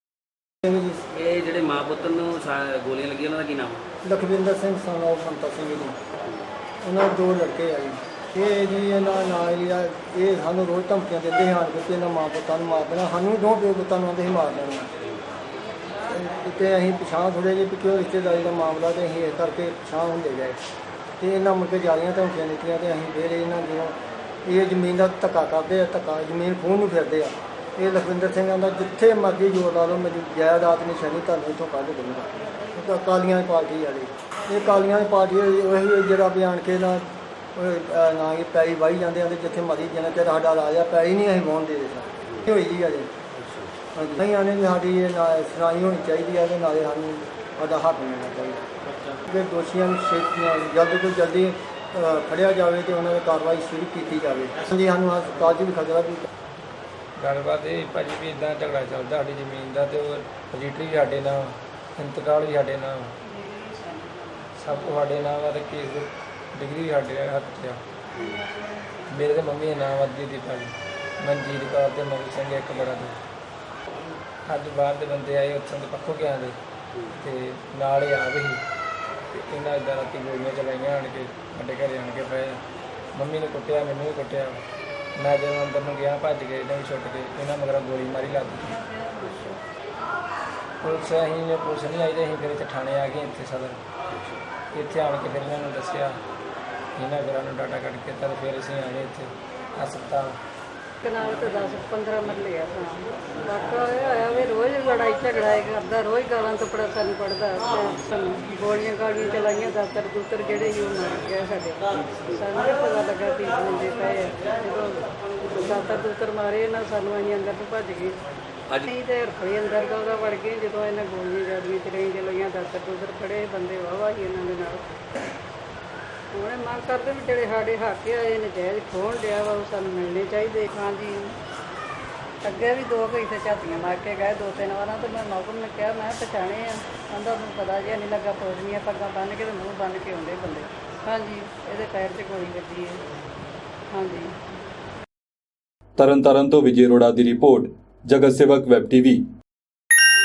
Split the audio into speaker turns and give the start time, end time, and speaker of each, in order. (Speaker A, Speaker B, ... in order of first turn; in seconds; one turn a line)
Speaker A: 0.6-1.0
Speaker B: 1.1-3.8
Speaker A: 4.0-6.0
Speaker A: 6.8-14.9
Speaker A: 16.1-20.6
Speaker A: 21.2-43.1
Speaker B: 43.4-43.7
Speaker A: 43.9-48.6
Speaker A: 49.3-56.3
Speaker C: 57.2-63.2
Speaker D: 63.3-64.2
Speaker C: 64.6-67.8
Speaker D: 68.2-68.5
Speaker C: 69.1-73.2
Speaker C: 74.5-76.6
Speaker C: 77.2-78.6
Speaker C: 79.3-82.6
Speaker C: 83.1-84.6
Speaker C: 85.2-88.8
Speaker D: 89.1-89.6
Speaker C: 90.8-93.8
Speaker C: 94.7-96.2
Speaker C: 97.0-100.4
Speaker D: 101.0-118.2
Speaker D: 118.8-124.8
Speaker D: 126.3-131.4
Speaker D: 132.4-143.0
Speaker D: 143.9-144.3
Speaker E: 146.0-149.2